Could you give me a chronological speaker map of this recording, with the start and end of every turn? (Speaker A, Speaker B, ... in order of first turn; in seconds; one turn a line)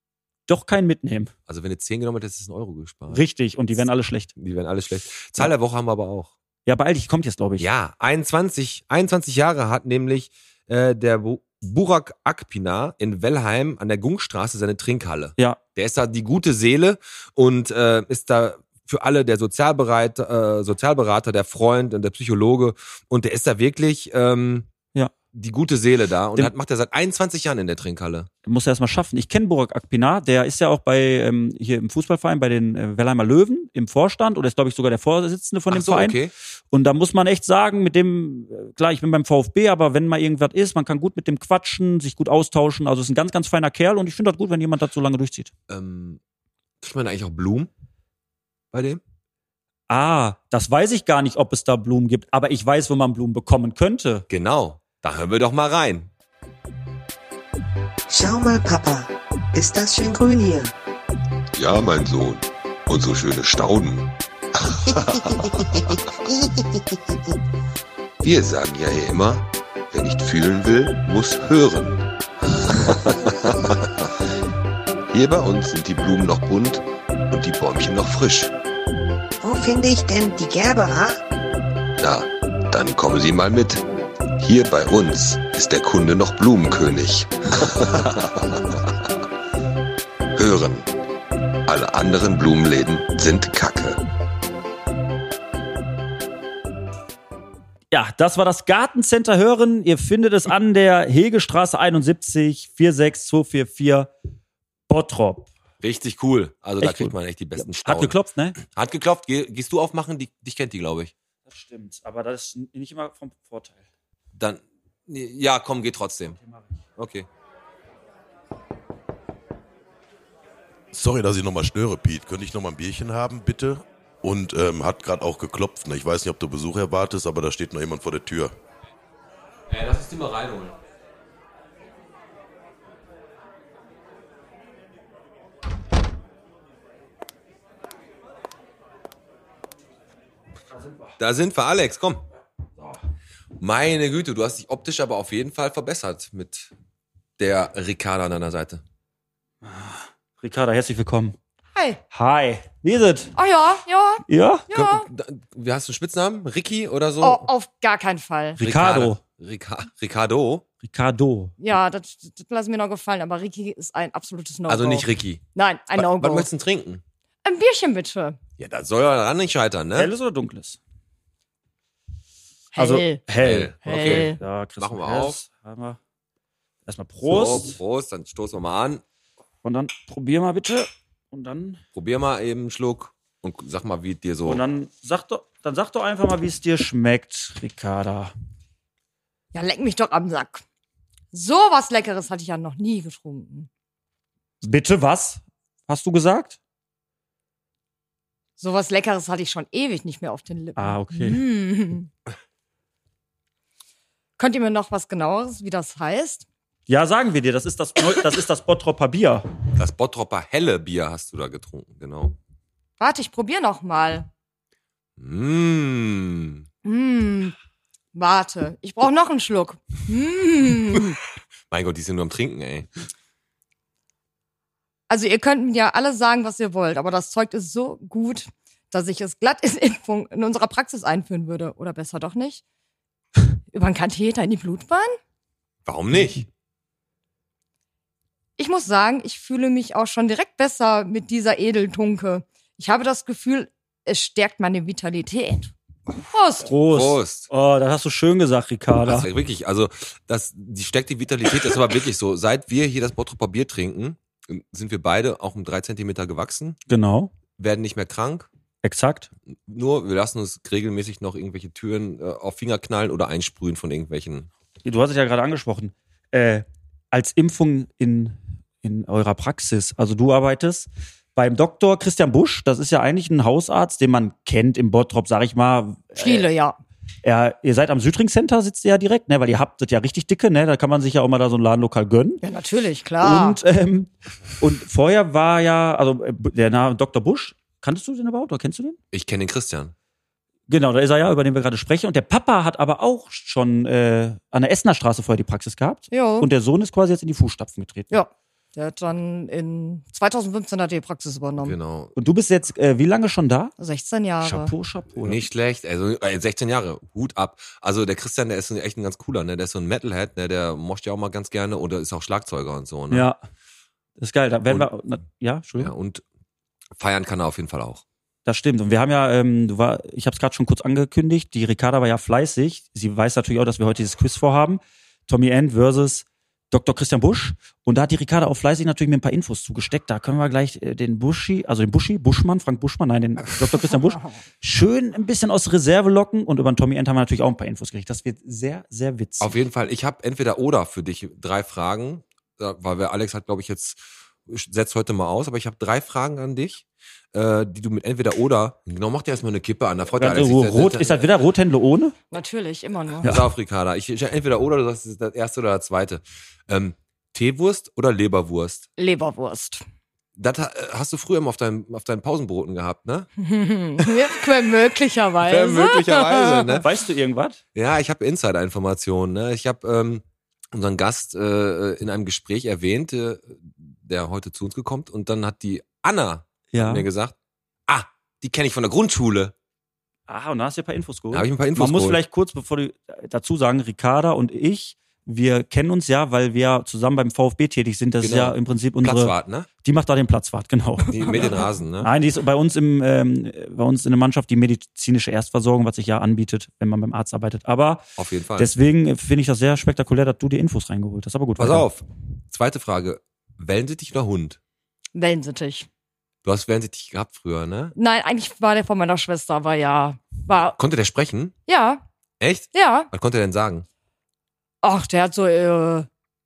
Speaker A: 0.5-1.3
Speaker B: 1.5-3.2
Speaker A: 3.1-4.3
Speaker B: 4.4-6.3
Speaker A: 6.7-7.7
Speaker B: 7.6-24.7
Speaker B: 25.3-28.3
Speaker A: 28.4-36.2
Speaker B: 35.7-36.3
Speaker A: 36.7-45.5
Speaker B: 45.7-46.2
Speaker B: 46.8-47.7
Speaker B: 48.7-49.0
Speaker A: 49.9-54.3
Speaker B: 54.3-56.1
Speaker C: 58.1-60.7
Speaker D: 61.5-66.0
Speaker D: 68.2-72.0
Speaker D: 72.7-73.9
Speaker D: 75.1-78.5
Speaker C: 79.4-81.2
Speaker D: 82.0-83.8
Speaker D: 84.4-88.8
Speaker D: 90.3-90.9
Speaker D: 91.7-94.0
Speaker A: 97.9-104.1
Speaker A: 104.9-105.5
Speaker B: 105.8-111.1
Speaker A: 106.8-108.6
Speaker A: 111.5-113.8
Speaker B: 114.3-116.4
Speaker A: 116.4-116.7
Speaker B: 117.0-117.3
Speaker E: 120.9-128.5
Speaker B: 129.7-130.8
Speaker A: 140.8-141.1
Speaker B: 141.2-142.2
Speaker B: 143.6-146.7
Speaker B: 147.4-148.8
Speaker A: 149.6-151.4
Speaker F: 151.7-152.0
Speaker A: 152.1-153.3
Speaker F: 153.3-155.1
Speaker A: 154.3-154.7
Speaker B: 154.7-157.5
Speaker F: 157.2-158.6
Speaker A: 158.6-159.2
Speaker B: 158.6-160.6
Speaker A: 160.8-161.5
Speaker F: 161.6-166.5
Speaker B: 164.7-167.0
Speaker F: 167.4-168.4
Speaker B: 168.6-170.1
Speaker A: 169.9-170.8
Speaker F: 172.8-173.3
Speaker A: 172.8-176.0
Speaker B: 173.4-175.4
Speaker F: 173.8-174.4
Speaker A: 176.9-177.8
Speaker B: 177.2-179.0
Speaker A: 179.6-181.8
Speaker B: 181.9-184.6
Speaker A: 184.4-188.3
Speaker F: 189.5-190.6
Speaker F: 191.3-193.7
Speaker A: 194.6-196.6
Speaker F: 198.6-202.1
Speaker A: 200.8-201.4
Speaker F: 204.4-206.5
Speaker A: 206.9-209.5
Speaker B: 209.8-212.4
Speaker F: 213.0-214.3
Speaker B: 215.2-216.6
Speaker F: 216.8-217.6
Speaker F: 218.1-221.2
Speaker B: 221.7-222.9
Speaker F: 225.1-232.6
Speaker F: 233.7-235.2
Speaker B: 235.9-236.5
Speaker F: 238.6-245.7
Speaker F: 246.3-246.7
Speaker A: 246.6-249.3
Speaker B: 246.9-247.5
Speaker B: 249.0-256.8
Speaker A: 256.9-257.3
Speaker B: 257.6-258.5
Speaker A: 258.8-259.3
Speaker B: 259.5-264.5
Speaker A: 264.9-276.5
Speaker F: 276.2-276.8
Speaker A: 277.2-282.4
Speaker F: 282.4-283.6
Speaker A: 283.2-289.0
Speaker B: 289.1-289.9
Speaker A: 290.7-298.1
Speaker F: 296.1-296.5
Speaker F: 298.1-301.8
Speaker B: 301.6-302.1
Speaker A: 302.2-303.7
Speaker F: 303.8-304.7
Speaker A: 304.4-305.4
Speaker B: 305.2-313.3
Speaker A: 313.1-313.4
Speaker A: 314.2-315.9
Speaker B: 315.8-316.2
Speaker B: 317.0-318.0
Speaker A: 318.5-339.5
Speaker B: 339.4-351.2
Speaker A: 350.2-352.1
Speaker F: 352.3-353.3
Speaker B: 353.2-358.9
Speaker F: 359.0-359.8
Speaker B: 360.4-363.3
Speaker F: 363.4-366.8
Speaker B: 365.4-366.9
Speaker A: 366.8-367.6
Speaker B: 367.7-377.4
Speaker A: 376.7-377.1
Speaker B: 377.9-379.5
Speaker A: 380.3-391.5
Speaker B: 381.3-382.2
Speaker B: 388.2-389.7
Speaker B: 391.1-392.1
Speaker A: 392.0-398.1
Speaker B: 398.2-398.7
Speaker A: 398.6-401.9
Speaker B: 401.6-404.6
Speaker F: 405.1-405.9
Speaker B: 406.4-407.9
Speaker F: 408.0-410.8
Speaker B: 410.8-411.6
Speaker F: 411.7-412.0
Speaker B: 412.4-413.9
Speaker F: 412.7-413.1
Speaker F: 414.8-416.1